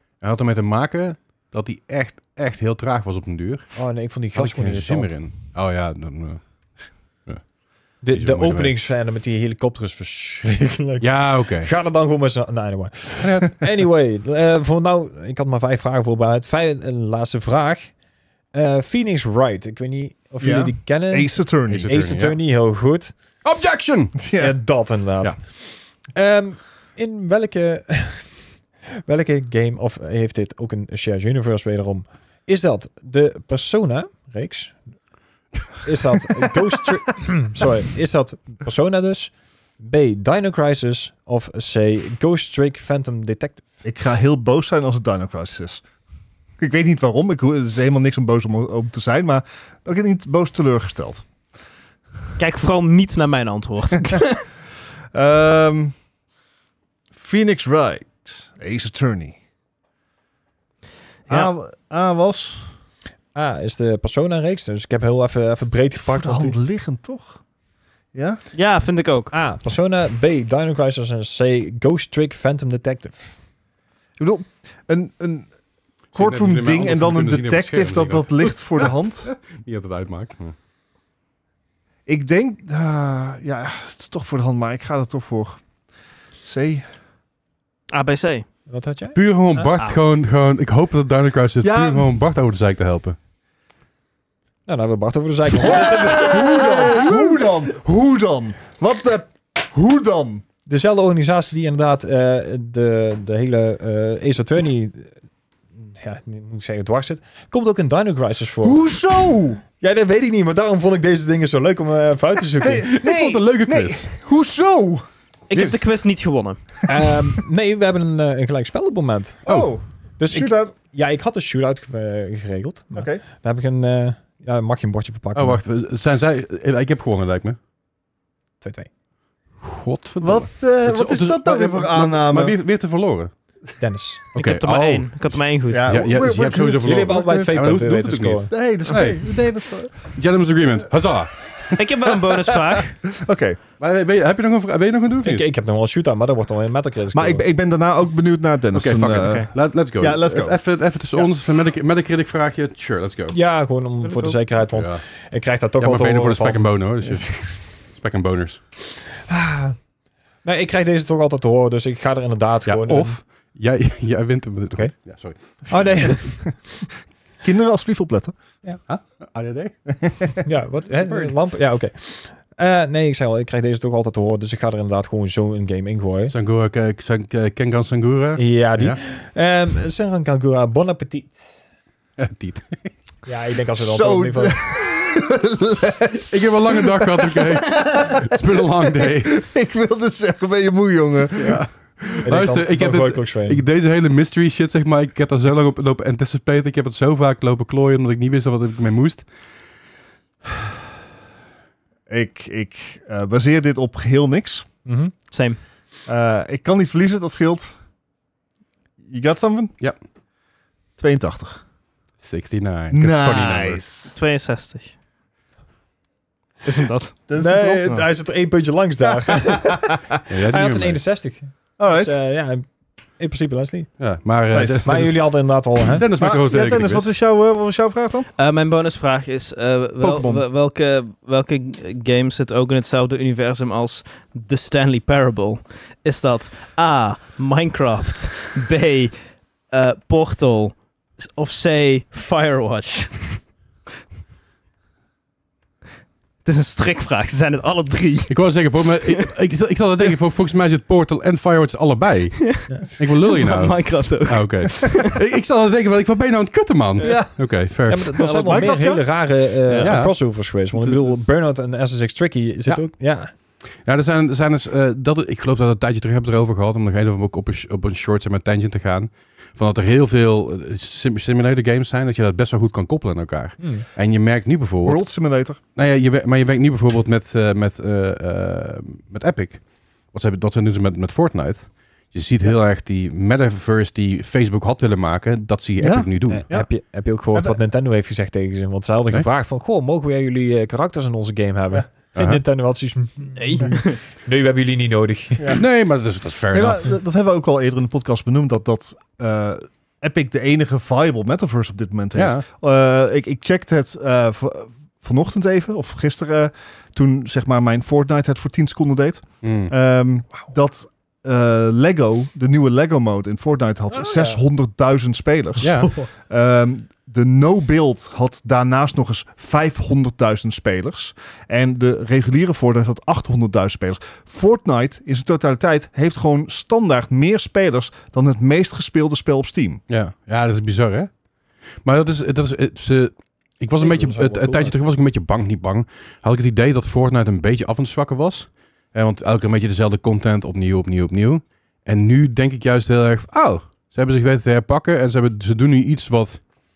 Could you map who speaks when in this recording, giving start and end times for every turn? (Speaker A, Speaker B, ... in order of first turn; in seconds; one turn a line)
Speaker A: 0.2-8.8
Speaker B: 3.8-5.1
Speaker B: 8.0-18.0
Speaker A: 11.0-11.7
Speaker A: 13.2-13.6
Speaker B: 18.5-23.1
Speaker C: 20.4-21.9
Speaker A: 21.7-22.4
Speaker A: 23.4-24.2
Speaker C: 24.2-24.6
Speaker B: 24.4-28.4
Speaker B: 28.9-34.9
Speaker B: 35.7-43.7
Speaker C: 43.8-45.9
Speaker C: 46.6-51.3
Speaker D: 52.4-54.5
Speaker C: 55.1-56.0
Speaker C: 57.1-59.4
Speaker C: 61.3-62.7
Speaker B: 63.3-66.5
Speaker C: 66.1-67.4
Speaker C: 68.1-68.4
Speaker D: 68.5-69.3
Speaker B: 69.3-73.4
Speaker C: 74.2-75.5
Speaker C: 76.1-79.3
Speaker A: 76.1-80.6
Speaker C: 82.1-85.6
Speaker C: 86.4-86.8
Speaker D: 87.9-88.5
Speaker B: 88.7-89.7
Speaker A: 89.1-93.2
Speaker C: 91.6-92.1
Speaker B: 94.7-97.1
Speaker C: 95.5-100.4
Speaker B: 100.7-105.1
Speaker B: 105.8-108.9
Speaker C: 108.6-109.6
Speaker B: 109.8-113.1
Speaker C: 112.6-115.1
Speaker A: 112.9-114.1
Speaker D: 115.5-116.8
Speaker B: 116.9-119.6
Speaker C: 119.5-120.7
Speaker A: 119.5-119.7
Speaker B: 120.2-125.6
Speaker C: 123.0-123.2
Speaker A: 125.3-127.6
Speaker B: 128.6-128.9
Speaker A: 129.6-133.3
Speaker C: 130.2-132.6
Speaker B: 133.8-134.3
Speaker D: 134.3-136.0
Speaker A: 134.3-141.9
Speaker C: 135.7-137.8
Speaker B: 136.8-138.5
Speaker C: 138.5-140.1
Speaker D: 141.8-143.1
Speaker C: 142.8-143.6
Speaker A: 143.8-145.5
Speaker B: 145.2-147.4
Speaker C: 147.1-150.6
Speaker A: 148.7-153.4
Speaker B: 153.3-156.8
Speaker D: 154.0-154.4
Speaker A: 154.7-155.0
Speaker A: 155.8-158.6
Speaker C: 157.1-157.5
Speaker B: 159.3-159.8
Speaker B: 160.4-163.2
Speaker A: 162.7-166.1
Speaker B: 164.7-166.6
Speaker C: 166.3-166.7
Speaker C: 167.4-168.3
Speaker A: 168.9-169.8
Speaker B: 170.4-176.3
Speaker A: 171.0-171.4
Speaker A: 176.3-179.0
Speaker B: 178.4-181.6
Speaker A: 182.2-182.9
Speaker B: 183.3-184.6
Speaker C: 183.8-192.2
Speaker A: 186.3-189.4
Speaker A: 191.4-199.3
Speaker B: 192.2-193.6
Speaker C: 202.1-204.7
Speaker B: 204.9-205.1
Speaker D: 205.3-205.6
Speaker C: 206.1-207.7
Speaker C: 209.0-209.7
Speaker C: 211.0-211.6
Speaker A: 212.2-213.8
Speaker C: 212.9-214.2
Speaker D: 214.1-214.9
Speaker D: 216.6-217.2
Speaker C: 217.3-218.1
Speaker B: 217.4-223.9
Speaker C: 219.0-220.1
Speaker A: 220.3-221.0
Speaker C: 221.8-222.2
Speaker A: 224.0-227.1
Speaker C: 224.5-225.1
Speaker B: 224.8-226.1
Speaker C: 226.1-228.3
Speaker D: 228.4-243.4
Speaker C: 230.0-230.4
Speaker D: 246.4-249.1
Speaker A: 248.3-258.3
Speaker D: 252.5-255.1
Speaker D: 257.0-257.3
Speaker C: 257.0-257.6
Speaker B: 257.9-263.3
Speaker D: 258.2-258.8
Speaker C: 258.3-259.1
Speaker D: 259.7-260.0
Speaker A: 259.8-260.2
Speaker D: 260.8-261.2
Speaker A: 263.4-275.1
Speaker B: 273.6-273.9
Speaker C: 274.8-275.6
Speaker A: 275.8-286.5
Speaker C: 285.8-287.6
Speaker B: 286.3-295.6
Speaker A: 292.1-292.4
Speaker D: 293.4-294.0
Speaker C: 295.4-295.6
Speaker A: 295.5-296.9
Speaker C: 296.5-329.8
Speaker A: 302.1-302.5
Speaker A: 309.4-309.7
Speaker B: 313.9-314.4
Speaker A: 315.6-315.9
Speaker B: 315.8-316.1
Speaker A: 329.9-331.2
Speaker A: 331.7-346.5
Speaker B: 333.8-334.8